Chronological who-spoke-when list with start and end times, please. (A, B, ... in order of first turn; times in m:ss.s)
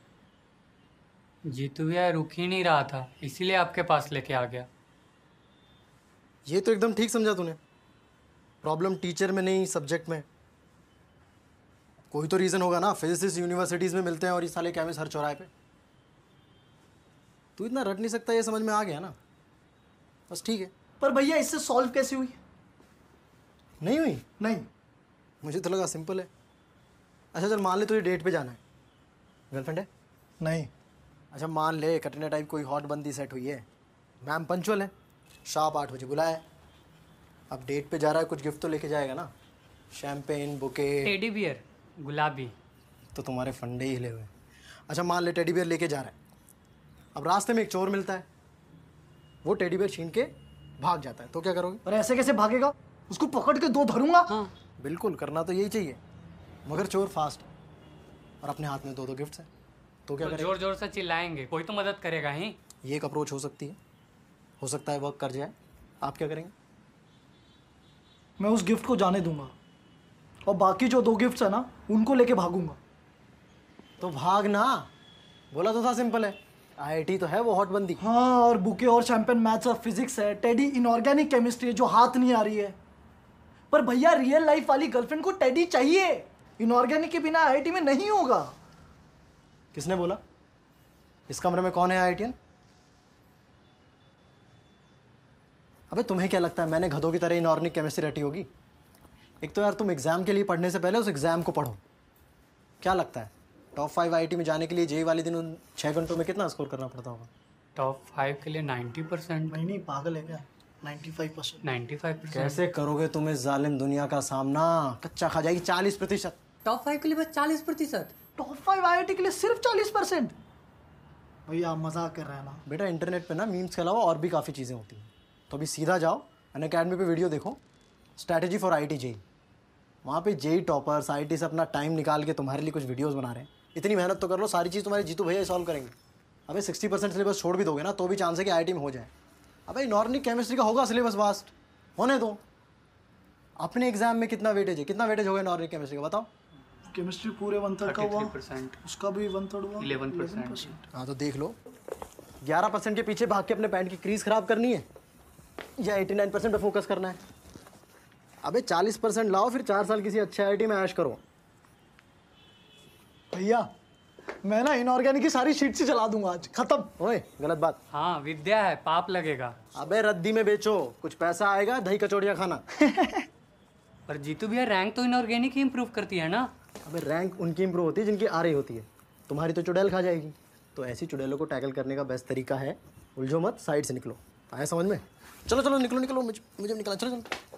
0:01.5-0:04.7 A
0:06.5-0:07.6 B
0:08.6-0:10.3 B
0:12.1-0:15.5 B
0:17.6-0:19.1 B
0:20.3-0:20.7 B
0:21.0-0:22.4 C
0:23.8-0:24.3 B
0:24.4-0:24.7 C
0:25.4-0:26.3 B
0:27.3-0:28.6 B
0:29.5-0:29.9 B
0:30.4-0:30.7 C
0:31.3-0:33.6 B
0:34.2-0:34.9 B
0:35.5-0:36.4 B
0:37.5-0:39.3 B
0:39.9-0:41.2 B
0:41.0-0:42.5 A
0:43.1-0:44.3 B
0:44.9-0:46.1 B
0:47.2-0:48.3 B
0:49.4-0:51.8 B
0:51.9-0:54.3 C
0:54.8-0:56.0 B
0:56.7-0:57.5 B
0:58.4-0:59.5 B
1:00.1-1:00.6 B
1:00.2-1:02.6 A
1:02.8-1:03.8 B
1:04.6-1:06.5 B
1:08.4-1:09.5 C
1:10.5-1:12.8 C
1:14.0-1:14.9 B
1:15.5-1:18.0 B
1:18.0-1:22.8 C
1:23.7-1:28.5 C
1:29.7-1:30.2 B
1:31.3-1:32.4 B
1:35.9-1:38.5 B
1:39.4-1:41.8 B
1:42.8-1:47.3 B
1:47.8-1:49.6 A
1:49.5-1:51.6 C
1:51.6-1:52.6 A
1:52.3-1:56.4 B
1:56.6-1:58.1 A
1:58.4-2:00.4 C
2:01.5-2:02.6 C
2:02.7-2:07.6 B
2:08.2-2:09.2 B
2:10.0-2:15.9 B
2:16.5-2:19.1 B
2:19.7-2:22.4 B
2:23.6-2:26.3 B
2:26.9-2:30.9 C
2:27.8-2:28.8 A
2:29.8-2:30.8 A
2:30.9-2:31.6 B
2:32.4-2:34.8 B
2:35.8-2:37.2 B
2:38.4-2:41.2 B
2:43.3-2:43.7 C
2:44.4-2:46.9 C
2:47.0-2:47.8 B
2:47.9-2:49.6 A
2:49.7-2:52.6 B
2:52.8-2:53.3 C
2:54.1-2:56.5 A
2:56.8-3:07.3 B